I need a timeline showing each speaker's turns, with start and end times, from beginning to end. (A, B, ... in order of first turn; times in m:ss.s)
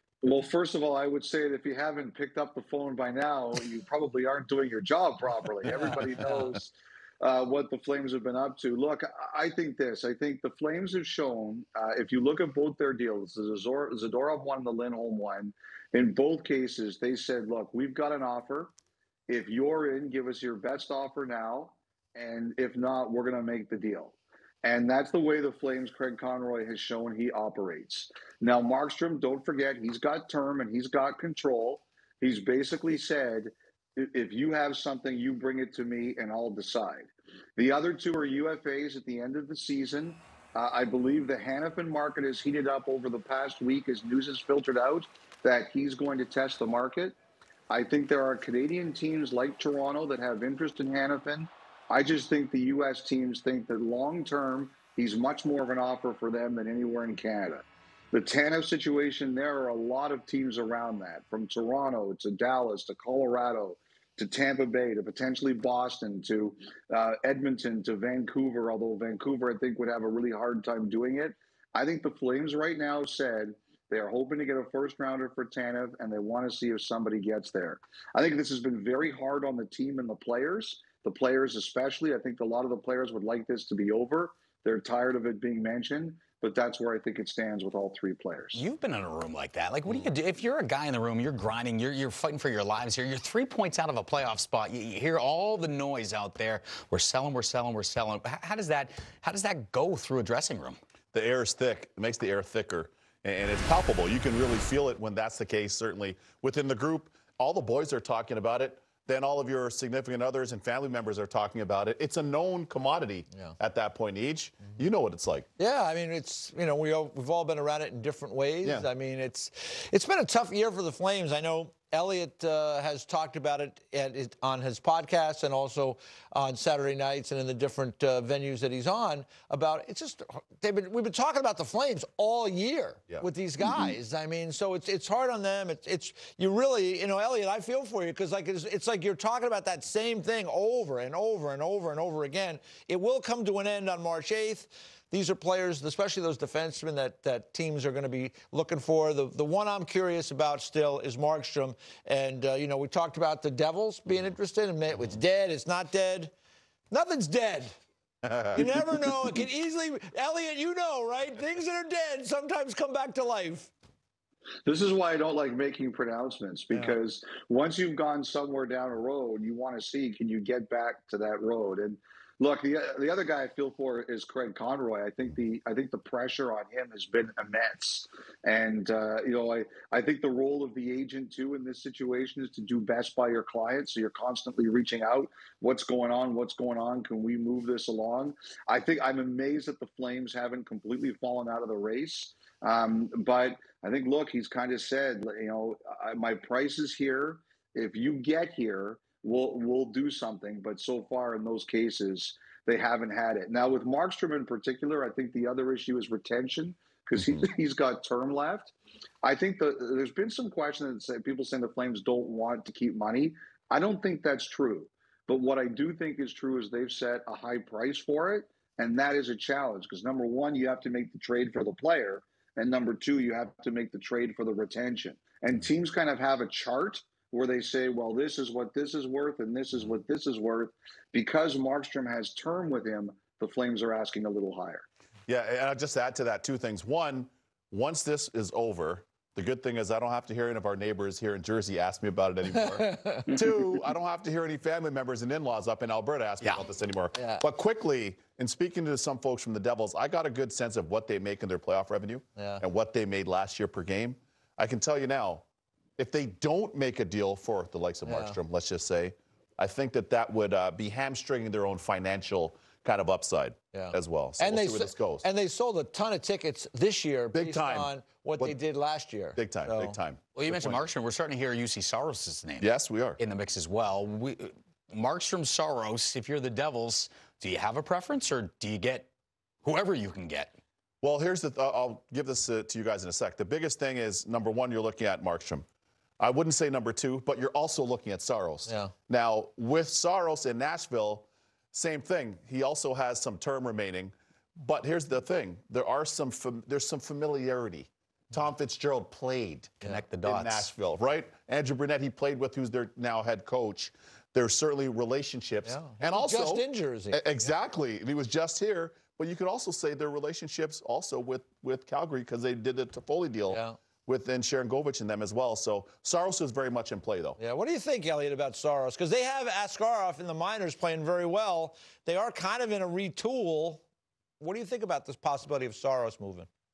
0:00.2-0:18.7 A
0:19.3-0:47.2 A
0:47.7-1:28.6 A
1:28.5-1:40.8 B
1:41.1-1:55.5 C
1:55.6-2:36.3 D
2:36.9-2:37.7 D
2:38.5-2:43.7 D
2:44.6-3:54.8 A
2:46.7-2:47.0 D
3:55.3-4:15.4 C
4:02.5-4:03.3 D
4:07.1-4:07.4 D
4:12.4-4:12.6 D
4:16.0-4:25.2 C
4:18.0-4:18.4 D
4:23.7-4:30.0 D
4:27.3-4:28.6 C
4:29.4-4:30.8 C
4:30.3-4:32.7 B
4:32.6-4:33.2 C
4:33.2-4:39.1 B
4:39.6-4:40.6 B
4:41.0-4:45.6 C
4:46.2-5:17.4 C
4:48.6-4:48.9 D
4:59.8-5:00.7 B
5:05.6-5:07.4 D
5:13.5-5:13.8 D
5:17.4-5:23.8 D
5:24.4-5:26.5 D